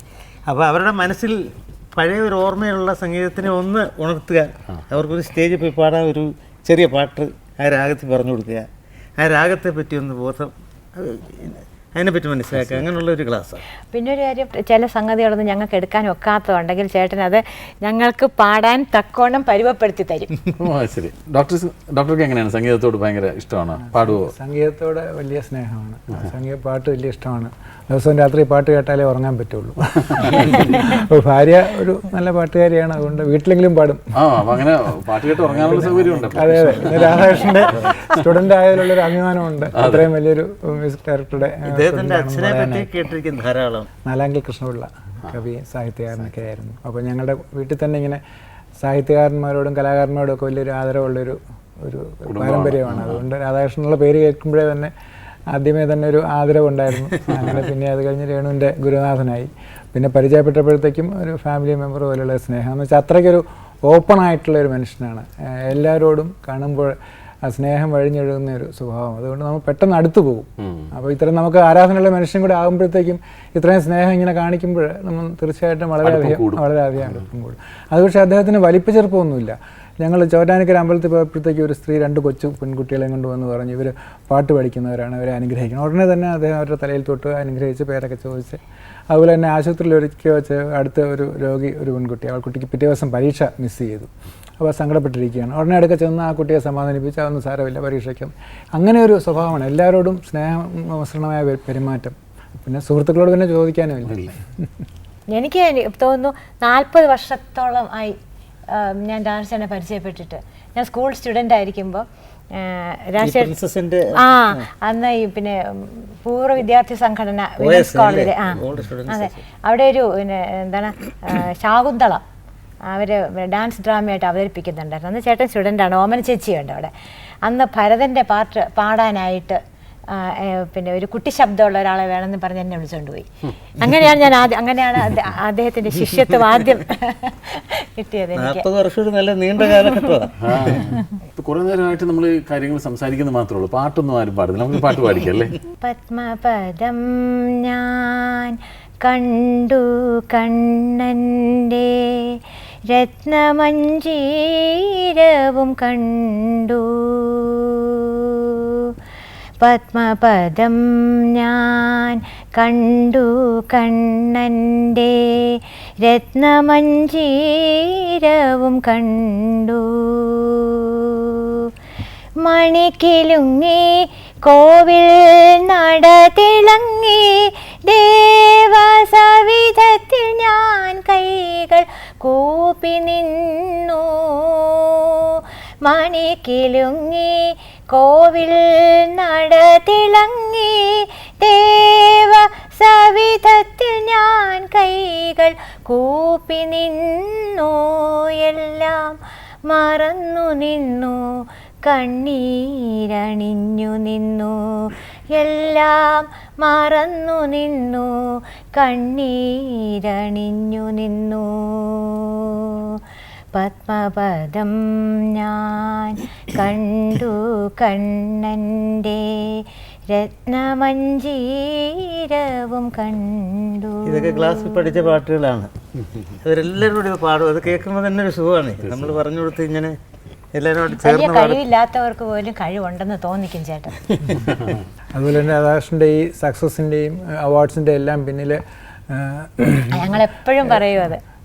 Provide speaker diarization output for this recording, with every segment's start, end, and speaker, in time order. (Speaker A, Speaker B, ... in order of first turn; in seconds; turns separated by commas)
Speaker A: 0.5-13.6, Speaker B: 12.6-12.9, Speaker C: 13.9-20.3, Speaker B: 20.6-24.3, Speaker D: 23.8-34.0, Speaker B: 30.1-30.6, Speaker B: 34.1-38.2, Speaker D: 35.6-42.9, Speaker A: 35.7-37.1, Speaker A: 37.7-38.0, Speaker B: 39.8-40.1, Speaker A: 41.7-43.9, Speaker D: 44.0-48.2, Speaker D: 48.8-54.9, Speaker B: 52.3-53.3, Speaker D: 55.5-104.4, Speaker B: 57.3-57.7, Speaker B: 70.6-70.9, Speaker B: 76.0-77.3, Speaker B: 104.0-104.3, Speaker C: 105.3-108.2, Speaker C: 108.7-113.5, Speaker A: 113.2-114.7, Speaker C: 114.2-122.2, Speaker A: 117.6-119.4, Speaker C: 122.9-126.9, Speaker C: 127.4-138.7, Speaker A: 138.4-140.8, Speaker B: 140.4-145.6, Speaker C: 145.8-158.9, Speaker C: 159.6-171.7, Speaker C: 172.4-213.0, Speaker C: 213.5-225.2, Speaker A: 224.0-225.7, Speaker A: 226.4-230.0, Speaker B: 228.8-229.2, Speaker A: 230.5-231.6, Speaker C: 230.9-234.0, Speaker D: 235.1-240.2, Speaker C: 239.9-241.2